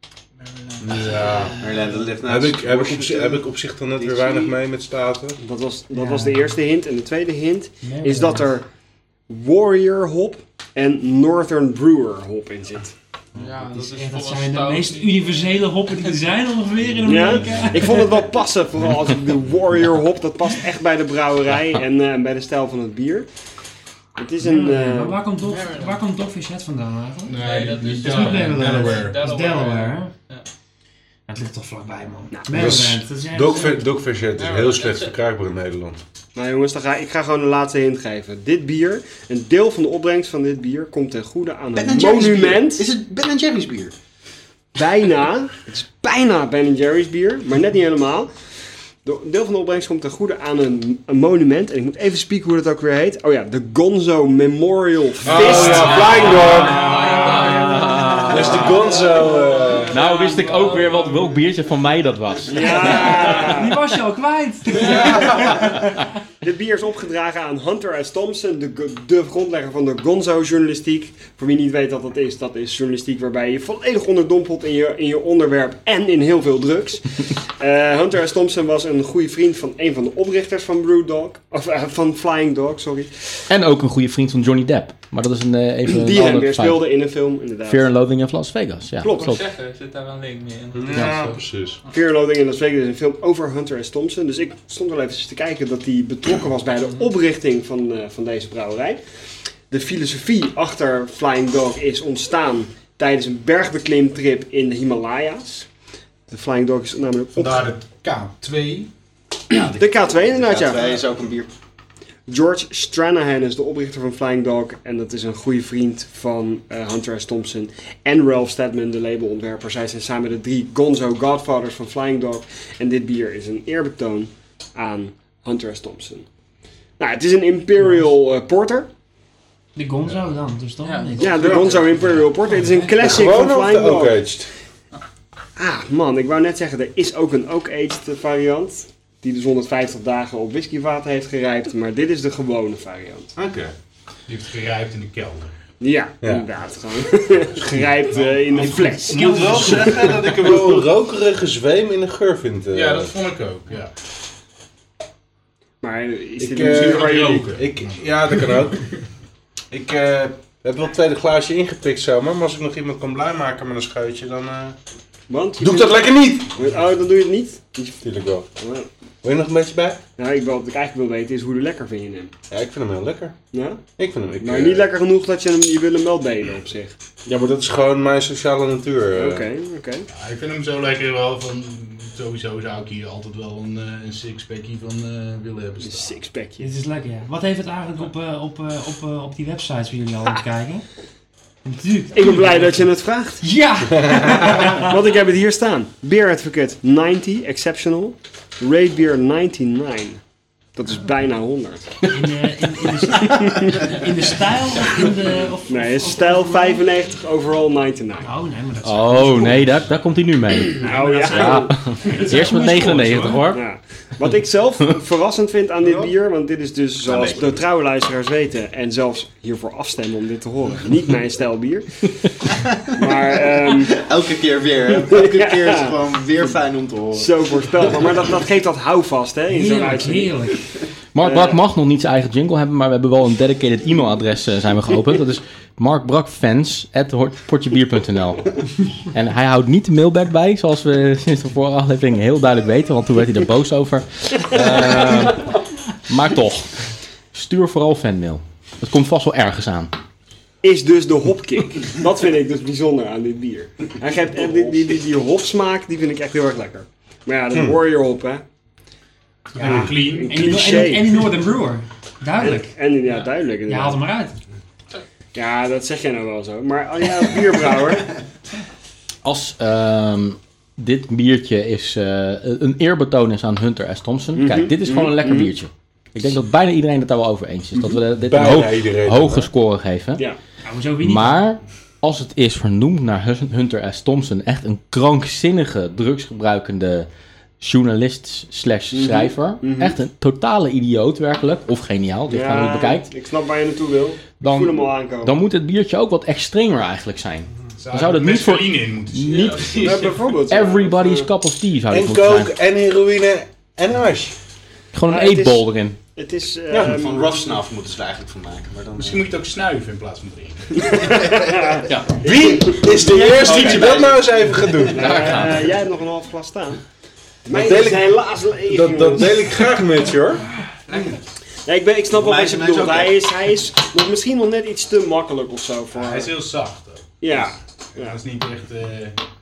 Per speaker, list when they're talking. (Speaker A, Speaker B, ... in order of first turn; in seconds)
Speaker A: 0.8-1.6, 2.2-5.4, 32.5-36.0, 55.2-56.9, 58.3-60.0, 64.7-65.8, 90.7-91.8, 131.3-131.7, 133.0-134.5, 143.4-143.7, 146.2-146.5, 148.7-153.1, 156.4-158.8, 159.7-164.8, 165.6-166.6, 168.0-168.5, 169.2-170.0, 172.5-173.4, 174.0-174.9, 177.3-179.5, 194.0-194.7, 257.5-257.8, 259.6-260.0, 278.2-279.5, 301.9-304.4, 306.7-306.9, 312.2-315.2, 317.5-320.4
Speaker B: 1.5-4.6, 41.7-44.0, 109.5-111.5, 217.0-217.6, 223.7-227.9, 306.8-309.3, 312.8-314.7, 322.1-323.2
Speaker C: 5.4-8.7, 9.3-12.9, 17.0-23.3, 24.2-25.2, 36.4-42.9, 44.8-48.3, 49.0-56.3, 62.5-63.8, 66.4-83.3, 85.9-87.9, 89.0-89.4, 91.9-99.0, 99.7-105.7, 106.3-107.8, 109.7-111.0, 112.3-126.3, 127.0-128.9, 131.2-134.2, 135.6-143.3, 145.8-150.7, 155.8-157.6, 165.3-168.0, 168.6-168.9, 170.2-172.3, 173.5-173.8, 174.4-176.9, 179.1-180.1, 185.8-186.7, 192.1-193.4, 194.4-200.2, 200.8-202.3, 203.2-204.0, 205.7-208.3, 210.8-212.1, 213.5-222.3, 223.0-224.0, 225.1-225.9, 227.1-230.4, 231.2-231.6, 244.7-245.2, 250.6-258.4, 260.0-261.2, 262.4-264.0, 265.4-268.1, 274.4-275.5, 288.9-290.0, 292.3-295.4, 299.7-301.3, 305.1-307.5, 310.7-312.9, 314.9-316.8, 317.4-319.5, 321.6-326.3, 327.2-328.2
Speaker D: 5.9-6.6, 7.8-8.6, 13.6-18.3, 24.4-30.1, 31.3-33.9, 55.8-59.7, 62.6-66.0, 129.8-131.6, 132.2-132.9, 148.6-150.4, 186.6-190.9, 191.7-192.8, 193.4-195.0, 202.1-206.9, 208.2-209.9, 210.8-213.5, 229.5-230.6, 259.5-262.7, 263.7-264.4, 280.6-281.5
Speaker E: 13.3-16.1, 25.5-26.0, 27.4-30.5, 34.4-35.1, 55.6-61.5, 89.1-91.2, 130.8-131.9, 320.9-321.2
Speaker F: 27.3-29.2, 55.4-56.0, 57.0-57.5, 107.3-108.9, 144.3-145.6, 148.2-148.6, 152.7-153.9, 156.6-158.6, 180.1-186.1, 259.6-260.8, 297.8-300.1, 308.9-311.2, 325.9-327.4, 328.0-329.2
Speaker G: 57.2-58.8, 59.9-63.5, 83.5-86.8, 87.7-89.4, 90.9-91.3, 208.8-213.6, 231.2-246.8, 247.3-249.9, 269.2-280.2, 281.0-287.1, 287.6-293.1, 294.4-302.5, 304.9-306.0, 311.9-312.1, 313.4-314.1, 314.9-315.7